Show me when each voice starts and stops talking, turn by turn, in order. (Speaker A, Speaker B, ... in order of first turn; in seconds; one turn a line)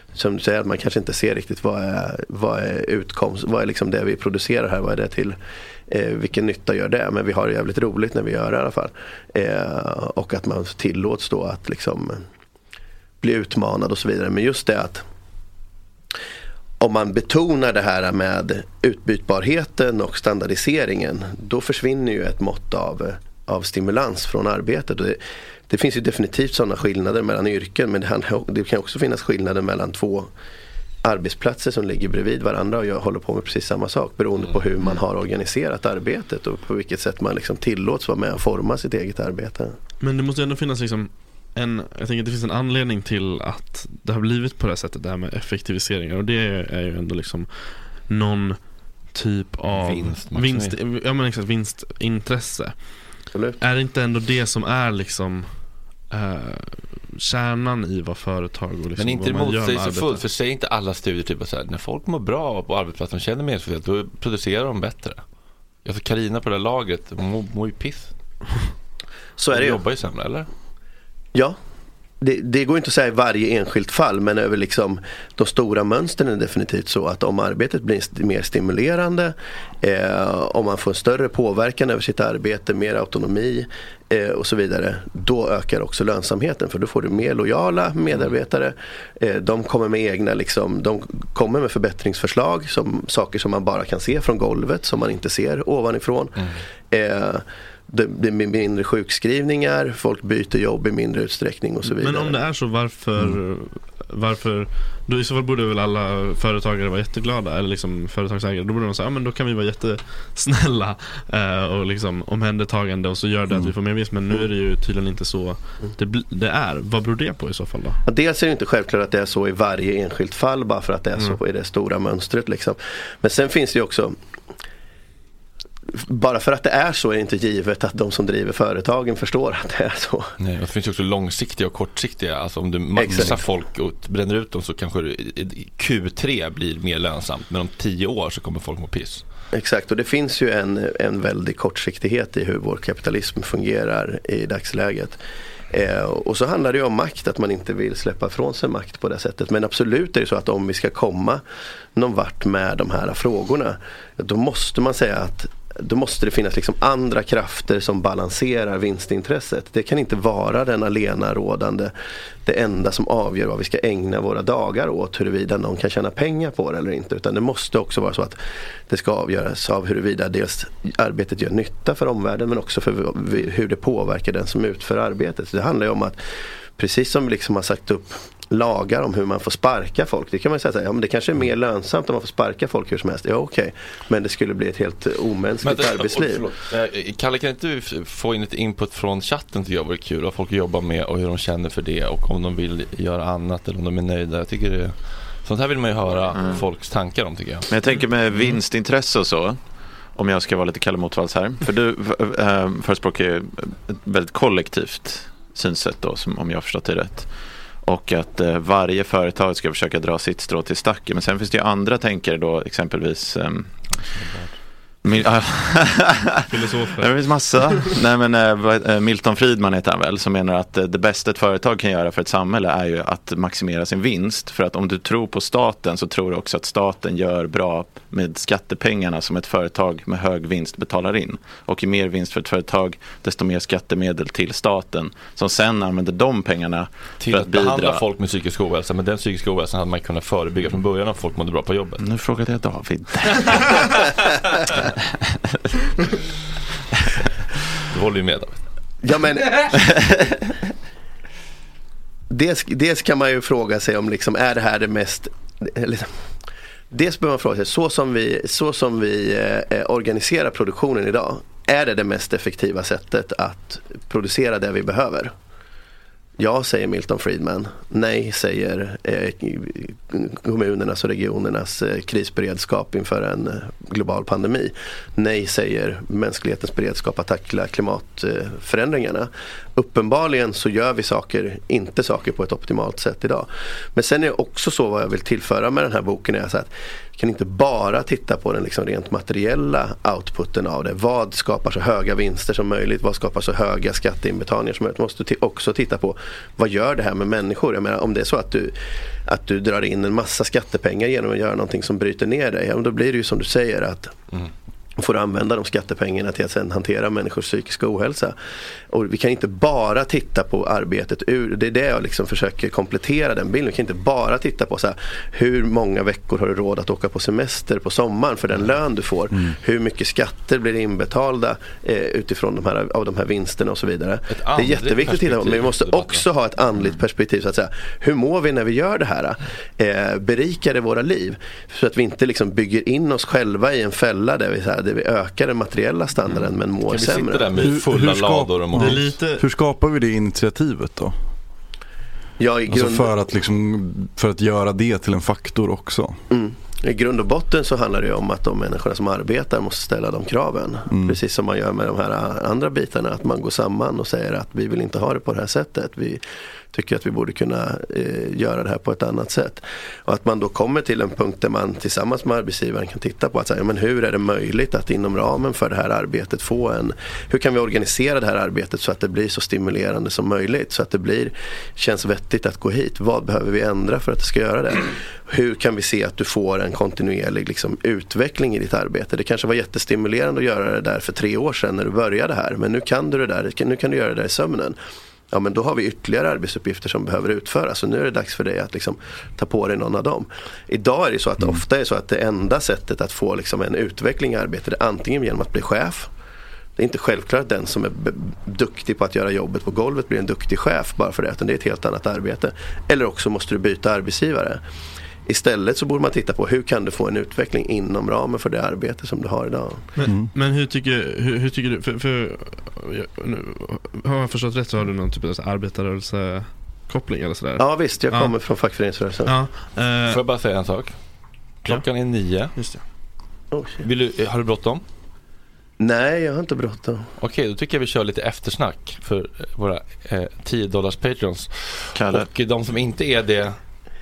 Speaker A: 0.1-5.4
Speaker A: 5.9-12.2
Speaker A: 13.2-15.1
Speaker A: 16.8-30.3
Speaker A: 31.0-39.8
Speaker B: 40.0-60.2
Speaker C: 49.7-50.8
Speaker A: 53.3-53.6
Speaker C: 59.0-65.2
Speaker C: 65.8-68.1
Speaker A: 69.4-69.8
Speaker C: 69.5-70.5
Speaker A: 72.2-102.4
Speaker B: 101.8-118.0
Speaker A: 118.1-124.2
Speaker A: 125.9-130.3
Speaker C: 130.4-139.2
Speaker A: 132.9-133.4
Speaker A: 139.5-145.2
Speaker A: 145.7-151.4
Speaker A: 151.9-161.9
Speaker A: 162.4-176.2
Speaker A: 176.8-186.5
Speaker C: 185.6-197.7
Speaker D: 196.3-196.6
Speaker D: 197.7-199.6
Speaker D: 200.2-207.3
Speaker D: 207.8-213.7
Speaker D: 215.0-238.0
Speaker B: 216.5-217.9
Speaker C: 237.2-242.1
Speaker D: 242.0-243.9
Speaker C: 247.9-248.6
Speaker A: 249.0-249.8
Speaker D: 249.7-250.0
Speaker A: 252.3-256.1
Speaker A: 256.9-265.3
Speaker A: 266.4-304.2
Speaker A: 305.0-308.4
Speaker A: 308.9-337.6
Speaker C: 324.3-326.2
Speaker C: 336.9-339.0
Speaker E: 337.6-341.1
Speaker B: 338.8-339.4
Speaker A: 342.4-343.1
Speaker E: 342.7-346.2
Speaker A: 346.3-356.2
Speaker E: 350.9-351.2
Speaker A: 356.7-384.8
Speaker A: 385.3-396.1
Speaker A: 396.8-404.6
Speaker A: 405.3-409.9
Speaker B: 410.0-418.3
Speaker E: 410.1-410.3
Speaker A: 417.6-419.3
Speaker B: 419.3-420.2
Speaker C: 420.1-421.0
Speaker C: 421.6-422.6
Speaker B: 422.6-422.8
Speaker A: 423.5-423.8
Speaker C: 423.8-424.9
Speaker A: 425.8-427.1
Speaker C: 427.2-433.6
Speaker D: 431.9-432.3